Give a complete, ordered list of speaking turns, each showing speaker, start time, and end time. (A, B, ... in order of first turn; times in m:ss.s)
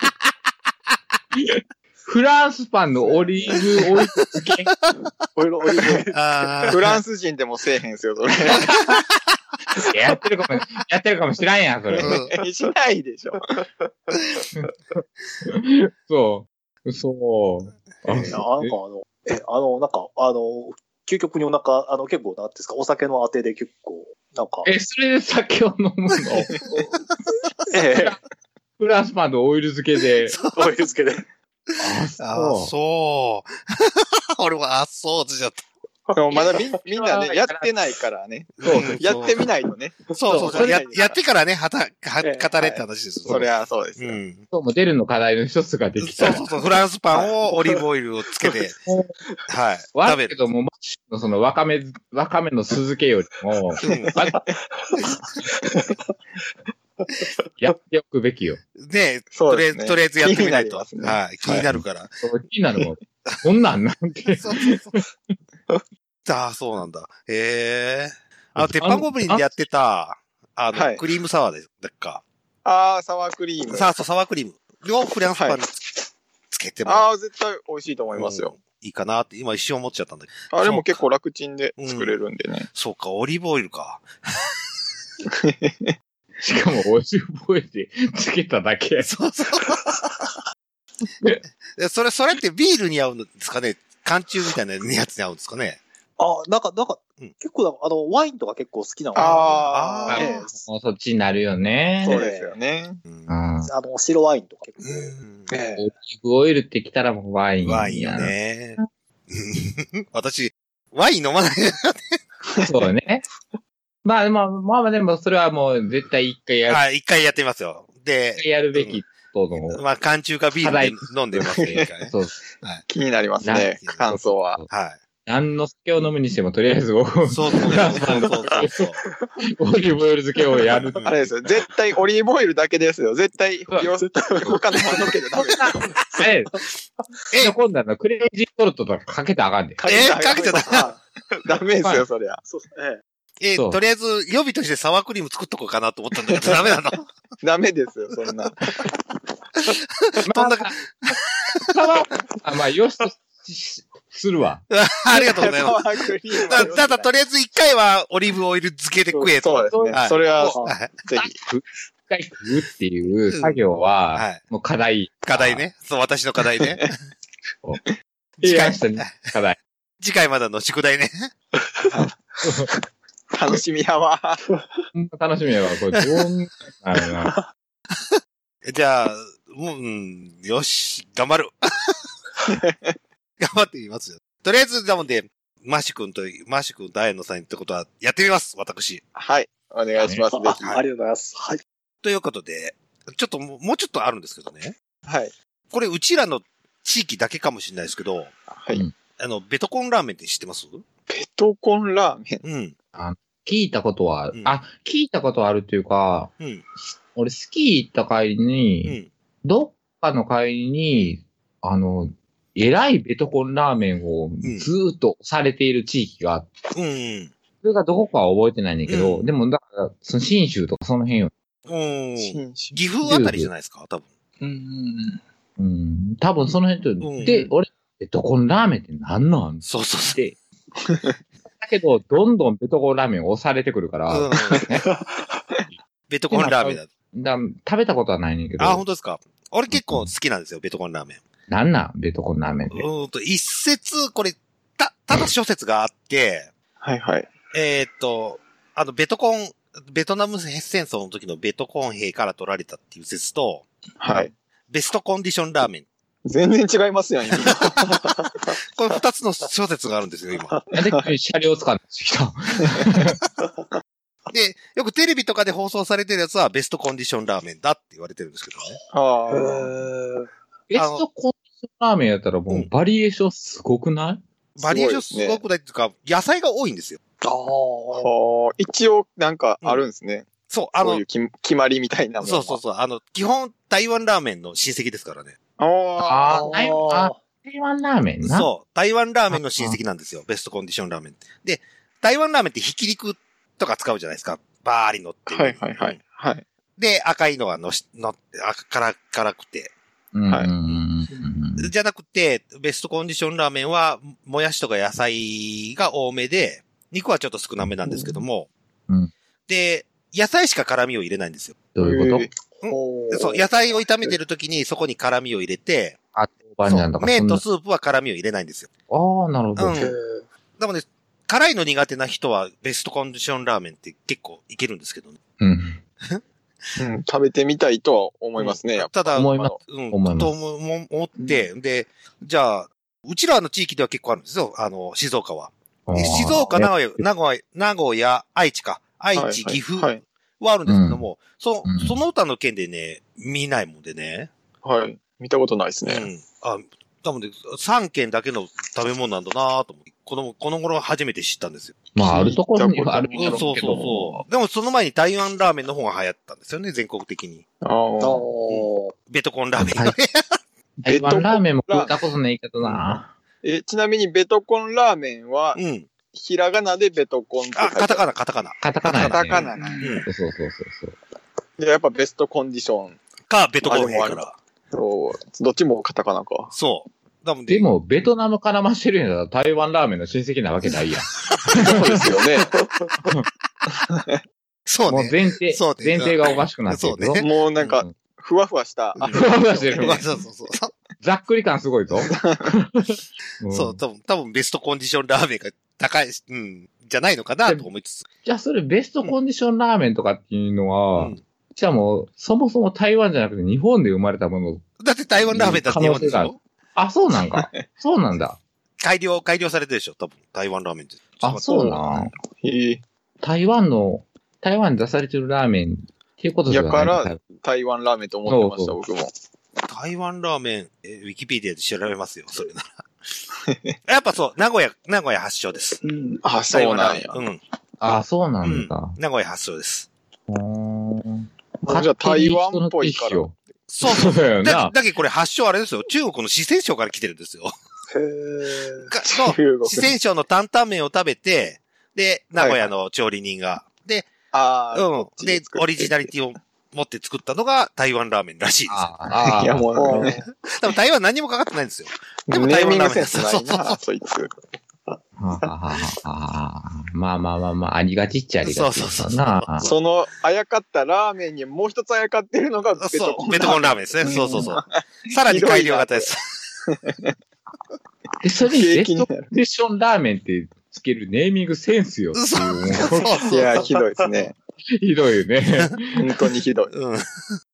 0:01.4-0:04.7 A
0:05.3-0:06.8 B
0:06.1-0:07.0 C
0:06.7-0:08.8 D
0:09.8-0:12.2 A
0:12.0-0:12.3 C
0:12.0-0:13.6 D
0:15.4-0:18.7 A
0:18.0-0:18.4 C
0:18.3-0:24.7 B
0:24.6-0:26.6 A
0:27.7-0:28.2 B
0:27.9-0:28.2 A
0:28.8-0:30.4 A
0:30.3-0:30.7 C
0:30.5-0:31.2 B
0:31.8-0:32.7 A
0:32.2-0:35.6 C
0:36.1-0:36.4 B
0:36.1-0:41.1 D
0:36.3-0:37.7 A
0:38.6-0:39.4 C
0:38.6-0:39.0 A
0:40.2-0:44.4 C
0:40.3-0:40.8 A
0:42.2-0:42.8 B
0:43.3-0:44.2 D
0:44.5-0:46.4 A
0:46.0-0:48.8 C
0:47.1-0:47.7 B
0:48.9-0:49.1 A
0:49.5-0:50.3 C
0:49.9-0:54.4 A
0:53.8-0:54.2 C
0:54.7-0:55.0 B
0:55.6-0:55.9 B
0:57.6-0:58.6 A
0:58.8-1:02.1 C
0:59.3-1:01.2 D
1:01.5-1:05.0 A
1:04.3-1:05.0 C
1:06.2-1:12.2 C
1:08.6-1:09.6 A
1:10.7-1:11.0 D
1:12.6-1:13.9 D
1:13.7-1:15.8 C
1:16.5-1:17.1 C
1:16.8-1:18.6 D
1:18.1-1:21.0 C
1:20.5-1:22.7 D
1:21.8-1:22.2 C
1:22.7-1:24.5 C
1:25.3-1:25.9 D
1:26.4-1:29.1 A
1:29.0-1:29.9 C
1:31.8-1:35.8 C
1:36.2-1:40.6 B
1:39.1-1:40.2 D
1:39.7-1:40.3 C
1:40.1-1:42.2 A
1:42.0-1:43.0 D
1:42.0-1:42.5 B
1:43.1-1:43.3 C
1:43.3-1:43.7 A
1:43.6-1:45.8 B
1:44.8-1:45.5 C
1:45.8-1:48.8 A
1:47.6-1:48.8 C
1:49.3-1:52.2 C
1:52.6-1:53.2 A
1:54.0-1:56.8 A
1:56.7-1:59.0 C
1:58.4-1:59.8 A
1:59.7-2:02.1 C
2:00.6-2:02.4 A
2:02.9-2:04.6 D
2:03.4-2:04.7 A
2:04.7-2:05.0 C
2:05.2-2:08.8 A
2:07.3-2:09.0 C
2:09.5-2:11.1 A
2:11.0-2:15.8 D
2:14.0-2:15.0 B
2:15.4-2:16.5 A
2:17.3-2:17.6 C
2:17.4-2:19.8 A
2:19.8-2:22.4 D
2:19.9-2:20.8 C
2:20.5-2:21.3 B
2:22.4-2:23.0 B
2:23.4-2:27.1 C
2:27.4-2:28.7 D
2:29.7-2:31.7 C
2:30.2-2:34.6 A
2:34.7-2:35.8 C
2:35.1-2:37.1 D
2:36.5-2:40.9 C
2:39.2-2:41.4 D
2:39.7-2:40.5 A
2:40.5-2:40.7 B
2:41.1-2:45.6 A
2:44.1-2:44.4 C
2:45.2-2:47.0 C
2:48.4-2:49.3 C
2:48.4-2:49.6 A
2:50.0-2:51.3 C
2:52.4-2:52.7 A
2:53.3-2:54.4 D
2:54.9-2:57.4 A
2:58.6-3:02.0 C
3:02.4-3:02.9 D
3:03.4-3:09.0 C
3:09.1-3:10.7 D
3:10.0-3:10.2 A
3:10.3-3:11.6 B
3:12.0-3:14.7 C
3:15.1-3:15.3 D
3:15.7-3:18.3 C
3:18.5-3:18.8 D
3:19.2-3:20.8 C
3:21.1-3:22.4 D
3:22.4-3:22.7 C
3:22.9-3:26.3 A
3:27.1-3:36.5 A
3:34.4-3:34.7 C
3:36.7-3:37.3 C
3:37.6-3:41.3 A
3:38.9-3:39.3 C
3:41.7-3:44.0 C
3:42.2-3:42.8 D
3:43.0-3:43.5 A
3:44.4-3:45.2 B
3:45.6-3:50.4 A
3:47.0-3:47.4 C
3:49.6-3:50.2 C
3:51.6-3:54.8 A
3:54.1-3:54.7 C
3:54.8-3:55.4 B
3:56.1-3:56.9 C
3:56.3-3:58.8 A
3:58.6-4:01.2 C
3:59.7-4:00.1 A
4:01.5-4:02.9 A
4:02.7-4:06.5 C
4:06.8-4:07.3 D
4:07.5-4:13.7 C
4:14.0-4:14.3 D
4:14.7-4:15.8 C
4:16.2-4:18.0 D
4:17.4-4:17.7 C
4:18.7-4:20.5 C
4:20.7-4:23.2 A
4:24.3-4:28.8 C
4:28.9-4:29.7 D
4:29.3-4:30.3 B
4:30.7-4:34.2 A
4:30.8-4:31.0 C
4:34.6-4:37.0 C
4:34.6-4:35.4 D
4:37.2-4:38.1 B
4:37.9-4:42.6 D
4:40.5-4:41.0 C
4:42.2-4:45.3 C
4:45.6-4:46.8 D
4:46.0-4:48.5 A
4:46.3-4:47.2 B
4:48.2-4:56.0 C
4:49.3-4:49.8 A
4:55.3-4:56.4 D
4:56.8-4:59.7 C
5:00.1-5:01.7 A
5:01.6-5:08.5 C
5:09.5-5:11.6 C
5:11.7-5:12.3 A
5:11.8-5:12.3 D
5:12.6-5:13.5 B
5:12.6-5:16.0 C
5:16.1-5:17.4 A
5:16.6-5:18.7 C
5:18.9-5:19.9 A
5:19.6-5:19.9 C
5:19.7-5:20.2 B
5:20.6-5:25.2 C
5:25.4-5:25.8 A
5:26.8-5:29.6 D
5:28.4-5:44.3 C
5:29.1-5:30.3 A
5:35.9-5:37.0 A
5:39.1-5:40.0 D
5:40.6-5:41.0 A
5:41.6-5:42.0 A
5:44.6-5:46.1 D
5:45.8-5:51.8 C
5:51.9-5:54.2 A
5:52.0-5:54.2 D
5:53.2-5:57.4 C
5:57.6-5:58.2 D
5:58.0-5:58.9 B
5:58.5-6:00.2 C
5:59.6-5:59.9 A
6:00.8-6:03.1 A
6:00.9-6:01.9 D
6:02.6-6:02.9 C
6:03.4-6:05.6 D
6:05.6-6:05.9 C
6:06.1-6:08.0 D
6:07.6-6:10.1 C
6:08.6-6:09.5 A
6:08.9-6:09.9 D
6:10.0-6:11.0 A
6:11.6-6:13.0 D
6:13.3-6:14.3 C
6:13.6-6:16.5 D
6:16.5-6:17.6 C
6:17.5-6:21.8 A
6:21.6-6:22.5 D
6:22.5-6:22.9 B
6:23.9-6:24.2 D
6:24.7-6:27.8 C
6:24.9-6:27.2 A
6:27.2-6:30.0 D
6:29.0-6:30.7 C
6:29.1-6:30.0 A
6:31.0-6:33.8 A
6:32.0-6:32.5 D
6:33.5-6:38.0 C
6:38.2-6:44.6 A
6:40.9-6:41.2 C
6:44.8-6:46.4 C
6:45.3-6:48.4 A
6:47.3-6:47.6 D
6:48.8-6:51.8 C
6:51.2-6:52.1 A
6:51.5-6:52.8 D
6:53.2-6:57.2 A
6:56.5-6:59.1 D
6:58.3-6:58.8 A
6:59.7-7:02.7 C
7:03.4-7:03.7 D
7:03.9-7:05.8 C
7:06.0-7:07.2 D
7:06.5-7:07.4 C
7:07.8-7:09.0 A
7:08.4-7:09.9 C
7:10.3-7:14.7 A
7:11.6-7:13.2 D
7:13.7-7:17.5 C
7:17.9-7:18.9 B
7:18.9-7:24.1 C
7:19.1-7:19.9 D
7:22.4-7:22.7 D
7:24.3-7:26.1 D
7:24.7-7:29.0 C
7:28.7-7:30.0 A
7:29.3-7:30.2 D
7:29.8-7:30.2 B
7:30.4-7:33.8 C
7:32.3-7:34.3 D
7:35.2-7:39.7 A
7:38.4-7:39.8 C
7:39.6-7:44.7 D
7:42.8-7:46.2 C
7:45.2-7:46.1 D
7:46.7-7:47.1 D
7:48.2-7:53.2 A
7:48.5-7:49.3 D
7:52.1-7:53.5 C
7:53.2-7:54.3 D
7:54.8-7:56.1 A
7:56.0-7:56.7 D
7:56.7-7:57.3 C